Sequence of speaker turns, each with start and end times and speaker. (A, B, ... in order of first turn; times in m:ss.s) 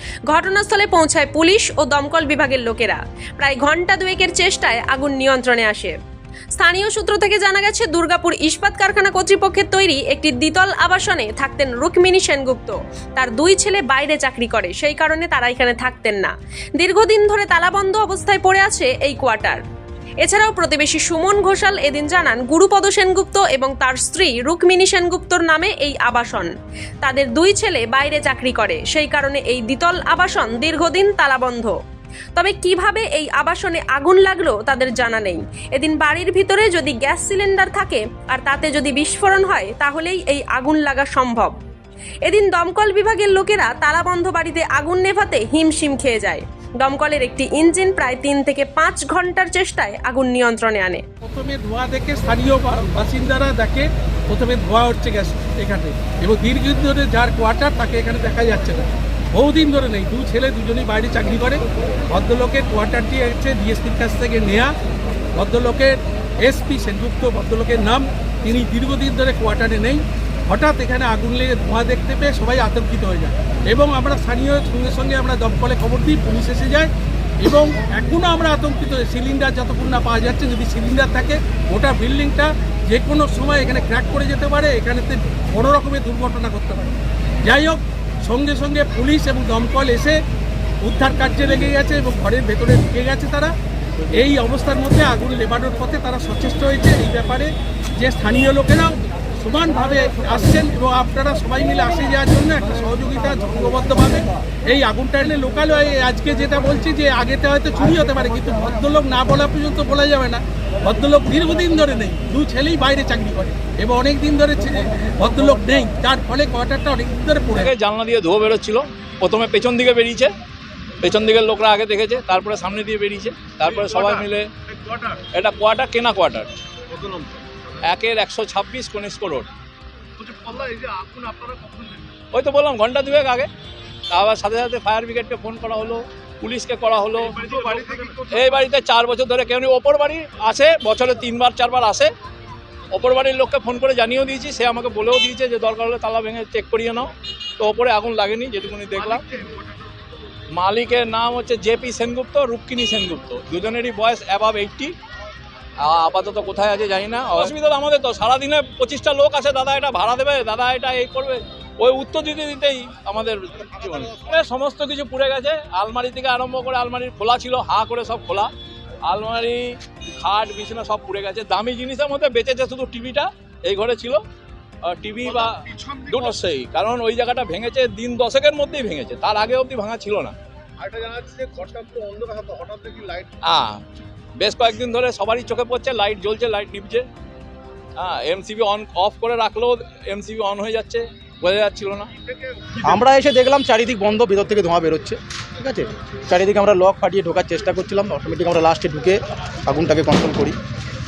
0:00.3-0:06.0 A
0:06.6-0:19.6 A
0:20.2-0:31.8 A
0:32.4-0:41.6 A
0:42.2-0:51.0 A
0:51.2-1:04.8 B
1:05.3-1:30.2 B
1:30.8-1:33.6 B
1:34.1-1:57.7 B
1:57.6-2:00.3 C
2:01.0-2:04.5 C
2:03.6-2:05.2 D
2:05.3-2:06.5 C
2:06.9-2:07.7 D
2:07.8-2:09.5 C
2:10.2-2:12.1 D
2:12.3-2:13.5 C
2:14.1-2:22.1 C
2:17.2-2:18.6 D
2:22.9-2:29.3 C
2:29.1-2:29.6 D
2:30.5-2:34.9 C
2:35.8-2:48.5 C
2:49.0-2:54.2 C
2:54.8-3:00.4 C
2:55.3-2:56.4 D
3:00.8-3:03.3 D
3:03.4-3:03.8 C
3:04.4-3:07.1 C
3:08.0-3:12.1 C
3:12.3-3:13.0 D
3:12.8-3:20.6 E